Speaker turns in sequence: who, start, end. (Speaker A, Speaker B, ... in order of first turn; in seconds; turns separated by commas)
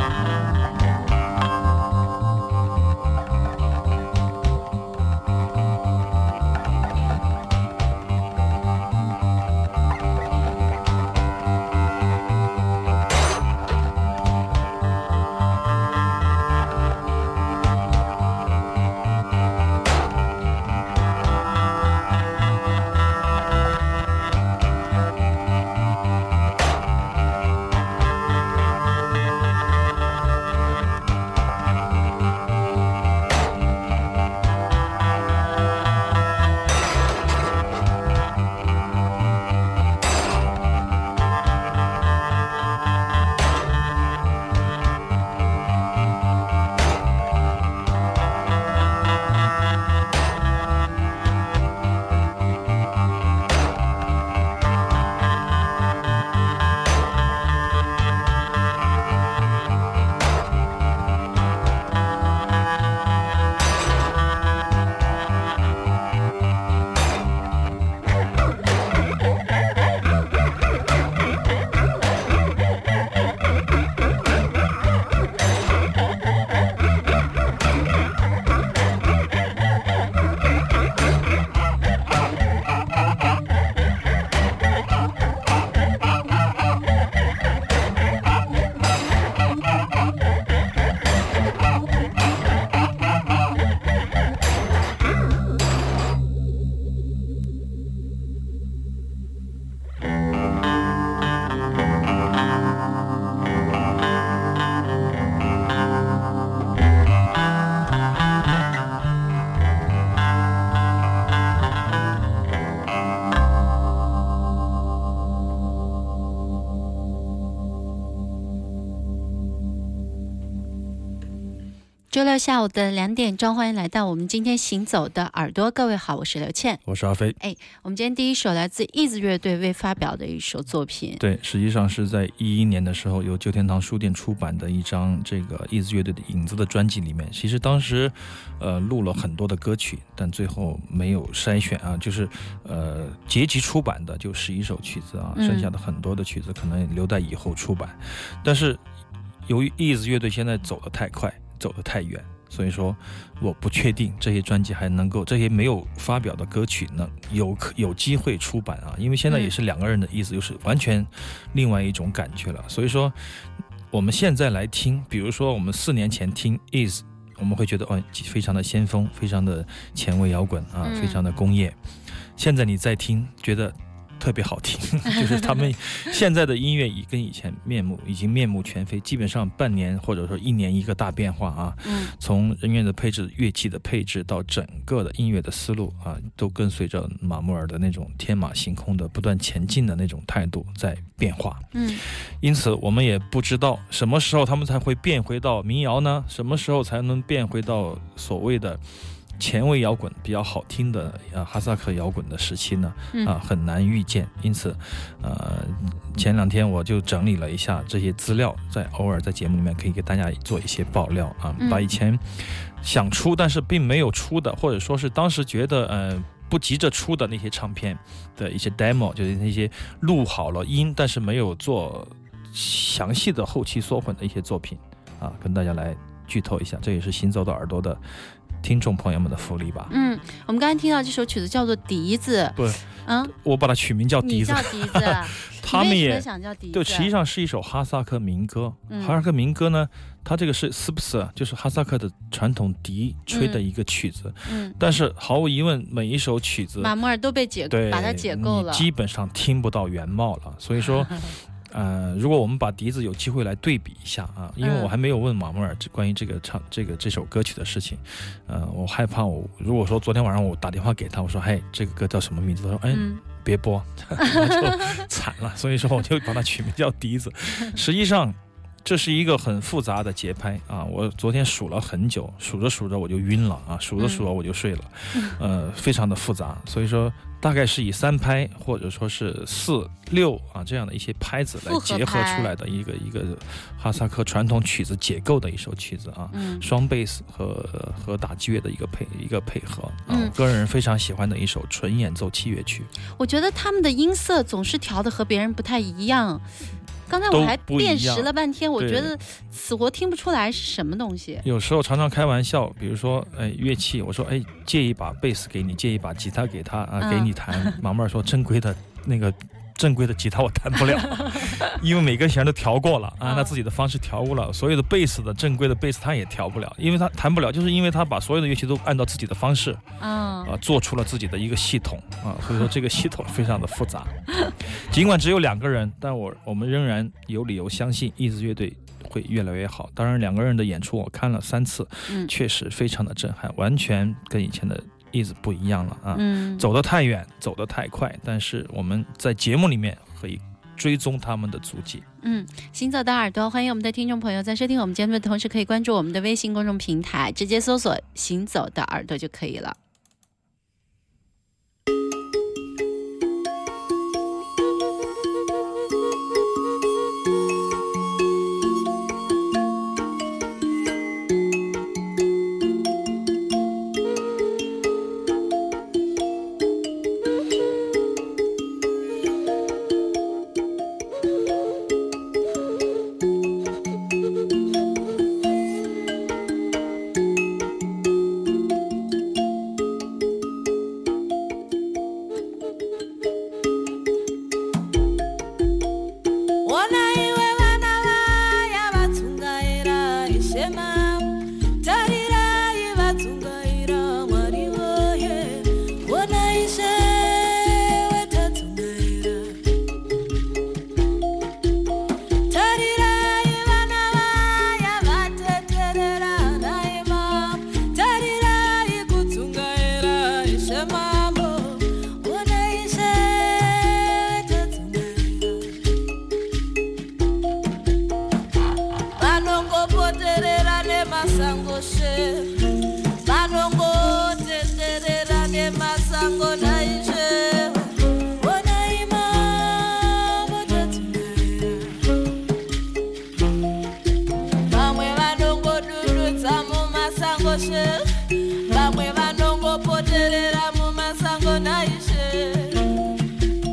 Speaker A: 122.1-126.8, Speaker B: 126.8-127.4, Speaker A: 127.4-131.2, Speaker B: 131.2-148.8, Speaker A: 145.3-145.7, Speaker B: 149.4-171.8, Speaker A: 170.8-171.2, Speaker B: 172.4-198.8, Speaker A: 181.8-182.1, Speaker A: 191.7-192.0, Speaker B: 199.4-228.0, Speaker A: 211.6-211.9, Speaker B: 228.6-229.9, Speaker A: 229.9-233.3, Speaker B: 232.6-246.9, Speaker A: 234.2-237.1, Speaker A: 238.9-239.2, Speaker A: 243.3-243.6, Speaker A: 244.4-244.8, Speaker A: 246.8-248.9, Speaker B: 247.7-292.9, Speaker A: 254.6-254.9, Speaker A: 262.9-263.2, Speaker A: 264.2-265.0, Speaker A: 274.0-274.2, Speaker A: 281.6-282.5, Speaker A: 286.3-286.6, Speaker A: 290.1-290.3, Speaker A: 293.2-296.4, Speaker A: 297.1-301.4, Speaker B: 297.3-299.1, Speaker B: 301.4-319.8, Speaker A: 307.0-307.8, Speaker A: 311.2-311.4, Speaker A: 313.2-313.5, Speaker A: 320.0-320.6, Speaker B: 320.4-342.0, Speaker A: 336.1-336.7, Speaker A: 342.2-349.8, Speaker C: 386.6-399.6, Speaker C: 402.5-415.9, Speaker C: 419.1-432.1, Speaker C: 434.7-443.1